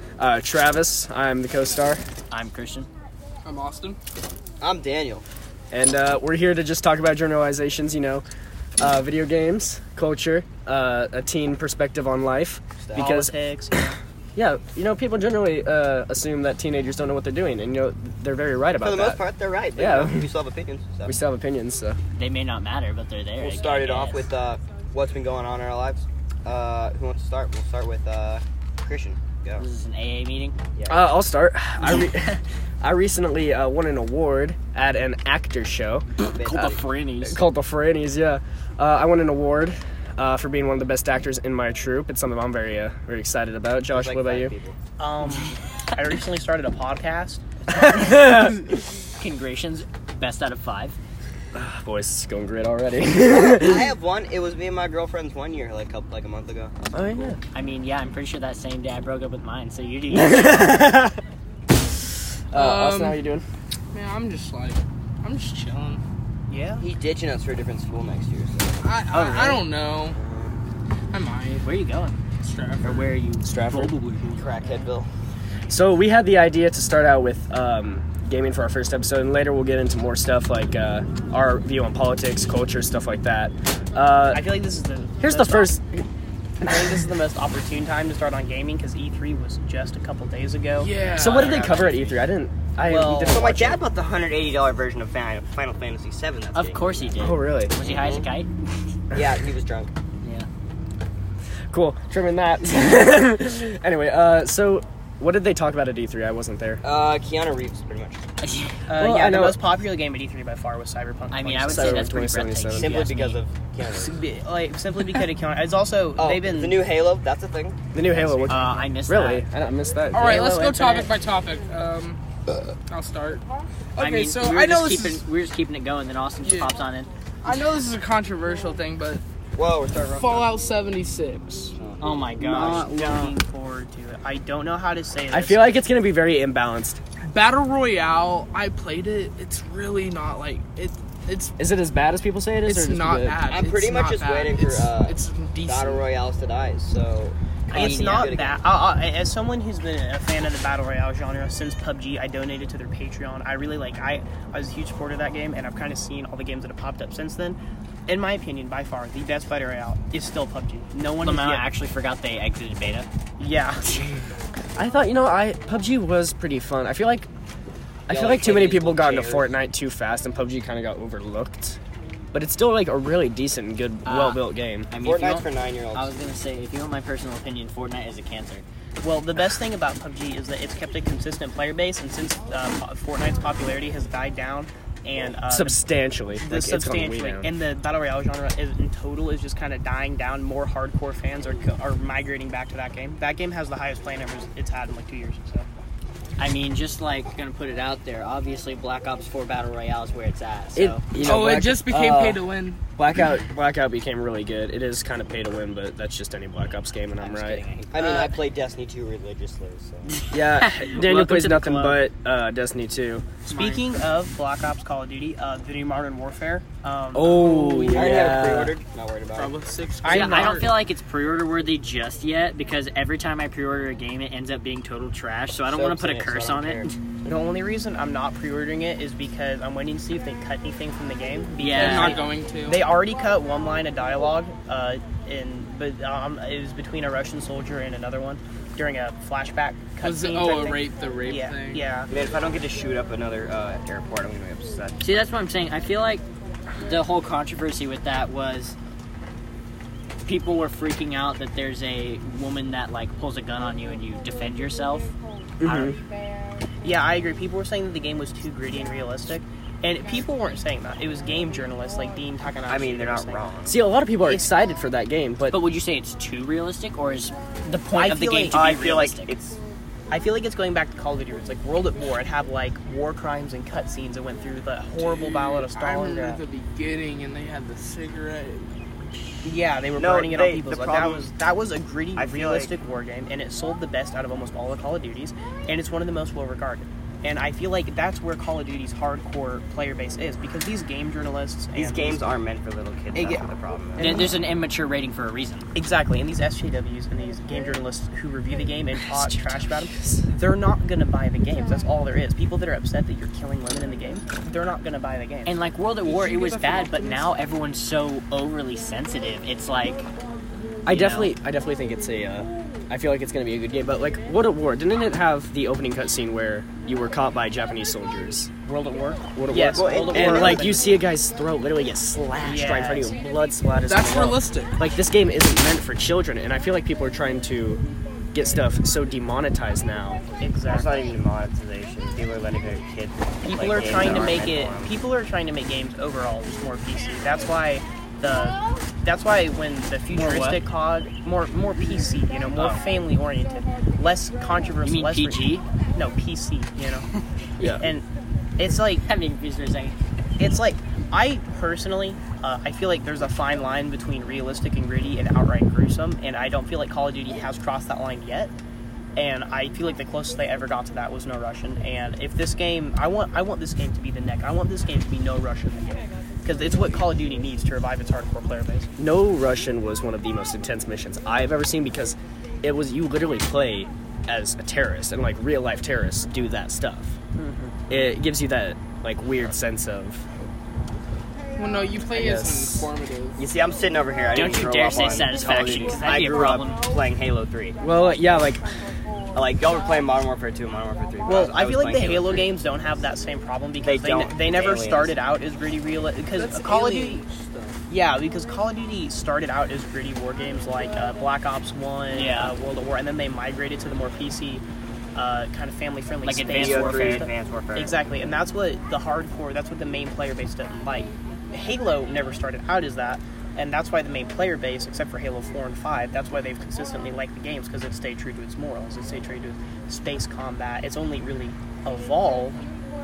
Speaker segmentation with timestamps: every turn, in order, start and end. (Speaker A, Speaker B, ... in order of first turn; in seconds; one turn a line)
Speaker A: 0.2-2.0
Speaker B: 2.3-2.9
Speaker C: 3.4-4.0
Speaker D: 4.6-5.2
Speaker A: 5.7-8.2
Speaker A: 8.8-13.3
Speaker E: 12.9-14.0
Speaker A: 14.3-19.2
Speaker D: 18.8-21.1
Speaker A: 19.8-20.3
Speaker A: 21.0-22.0
Speaker B: 22.1-24.3
Speaker D: 23.4-29.6
Speaker B: 29.6-30.5
Speaker D: 30.8-31.1
Speaker A: 30.9-44.5
Speaker B: 36.2-37.4
Speaker D: 36.2-36.8
Speaker D: 43.9-44.8
Speaker E: 45.0-47.4
Speaker A: 47.7-48.7
Speaker B: 47.8-48.3
Speaker B: 49.2-51.0
Speaker A: 51.5-53.9
Speaker D: 53.4-56.7
Speaker A: 56.9-57.4
Speaker B: 57.5-61.0
Speaker A: 60.1-61.2
Speaker A: 62.5-63.4
Speaker C: 62.5-63.2
Speaker C: 63.9-66.0
Speaker E: 66.5-66.8
Speaker D: 66.8-70.6
Speaker C: 68.8-70.2
Speaker C: 71.1-71.7
Speaker B: 71.6-72.2
Speaker C: 72.4-73.1
Speaker B: 72.8-74.9
Speaker A: 73.4-73.9
Speaker D: 74.3-75.1
Speaker A: 75.7-84.4
Speaker E: 84.3-85.8
Speaker A: 85.2-86.0
Speaker E: 86.6-90.9
Speaker C: 90.8-91.6
Speaker D: 91.0-92.2
Speaker A: 91.2-93.8
Speaker E: 91.5-91.8
Speaker E: 92.8-93.4
Speaker D: 93.1-97.2
Speaker B: 96.5-98.5
Speaker A: 97.2-97.7
Speaker D: 97.8-98.2
Speaker D: 99.1-99.9
Speaker B: 100.2-100.5
Speaker A: 101.7-106.8
Speaker D: 106.8-108.2
Speaker B: 108.4-108.8
Speaker E: 108.9-112.1
Speaker A: 109.0-109.6
Speaker B: 111.3-113.4
Speaker A: 111.7-113.0
Speaker D: 112.8-114.2
Speaker E: 113.9-116.8
Speaker D: 116.2-118.9
Speaker A: 117.9-120.6
Speaker B: 118.5-119.4
Speaker C: 120.1-123.4
Speaker B: 120.2-121.1
Speaker C: 123.9-125.2
Speaker B: 124.0-127.1
Speaker C: 126.4-126.7
Speaker C: 127.4-129.2
Speaker D: 129.5-130.5
Speaker C: 130.1-131.7
Speaker D: 131.7-133.3
Speaker B: 132.0-132.9
Speaker E: 132.5-135.8
Speaker A: 135.3-137.0
Speaker C: 137.2-141.5
Speaker A: 141.6-143.4
Speaker C: 142.6-146.1
Speaker D: 143.4-148.6
Speaker B: 147.7-148.3
Speaker E: 147.7-161.7
Speaker B: 161.2-163.1
Speaker E: 163.4-164.0
Speaker A: 164.8-167.3
Speaker A: 168.1-171.8
Speaker D: 168.1-169.5
Speaker A: 172.3-174.9
Speaker B: 174.0-178.6
Speaker D: 175.0-176.1
Speaker E: 179.0-185.8
Speaker A: 185.5-187.5
Speaker E: 186.4-195.7
Speaker B: 196.4-201.1
Speaker A: 200.8-202.3
Speaker C: 201.2-202.8
Speaker D: 202.0-202.3
Speaker A: 203.0-207.6
Speaker B: 207.3-207.9
Speaker D: 207.9-210.2
Speaker C: 207.9-208.3
Speaker B: 210.1-212.0
Speaker A: 210.3-213.3
Speaker B: 213.5-213.8
Speaker E: 213.5-217.5
Speaker A: 217.1-218.8
Speaker C: 217.8-218.5
Speaker D: 217.8-219.6
Speaker C: 219.3-220.7
Speaker E: 220.0-220.7
Speaker B: 220.1-226.9
Speaker D: 225.7-226.9
Speaker E: 227.2-242.1
Speaker B: 231.6-232.2
Speaker C: 231.7-232.8
Speaker C: 240.0-241.8
Speaker D: 242.1-245.0
Speaker B: 245.0-246.2
Speaker B: 246.8-248.8
Speaker B: 250.2-255.1
Speaker A: 255.6-256.0
Speaker B: 255.6-255.9
Speaker E: 256.8-263.5
Speaker D: 262.7-263.8
Speaker A: 263.6-265.6
Speaker B: 265.5-269.3
Speaker E: 267.9-268.7
Speaker D: 268.5-269.6
Speaker E: 270.1-276.4
Speaker C: 275.0-278.7
Speaker E: 279.4-292.2
Speaker D: 280.0-281.3
Speaker D: 282.1-282.7
Speaker D: 291.7-294.3
Speaker E: 293.1-293.4
Speaker E: 294.0-294.3
Speaker B: 294.0-295.7
Speaker E: 295.7-305.6
Speaker A: 299.0-300.3
Speaker B: 305.5-310.1
Speaker C: 306.0-307.3
Speaker A: 310.9-318.5
Speaker B: 310.9-311.3
Speaker E: 318.6-320.9
Speaker A: 319.3-327.8
Speaker D: 319.7-320.7
Speaker E: 322.4-323.1
Speaker C: 323.9-324.8
Speaker A: 328.3-330.2
Speaker E: 330.4-331.0
Speaker D: 330.6-334.9
Speaker E: 333.4-347.1
Speaker B: 340.1-340.6
Speaker B: 342.6-342.8
Speaker B: 344.8-345.6
Speaker E: 347.8-348.0
Speaker E: 348.6-349.0
Speaker B: 349.0-350.0
Speaker E: 350.4-358.5
Speaker E: 359.1-368.9
Speaker A: 369.0-377.1
Speaker E: 377.4-377.7
Speaker A: 377.9-380.2
Speaker C: 381.6-383.4
Speaker A: 382.1-382.9
Speaker D: 383.4-387.8
Speaker B: 384.3-386.8
Speaker A: 387.8-388.6
Speaker D: 389.3-392.5
Speaker E: 391.2-397.2
Speaker D: 393.8-395.1
Speaker C: 396.3-397.8
Speaker E: 397.9-404.6
Speaker B: 402.1-402.5
Speaker E: 405.1-422.6
Speaker B: 406.2-407.3
Speaker D: 406.5-408.0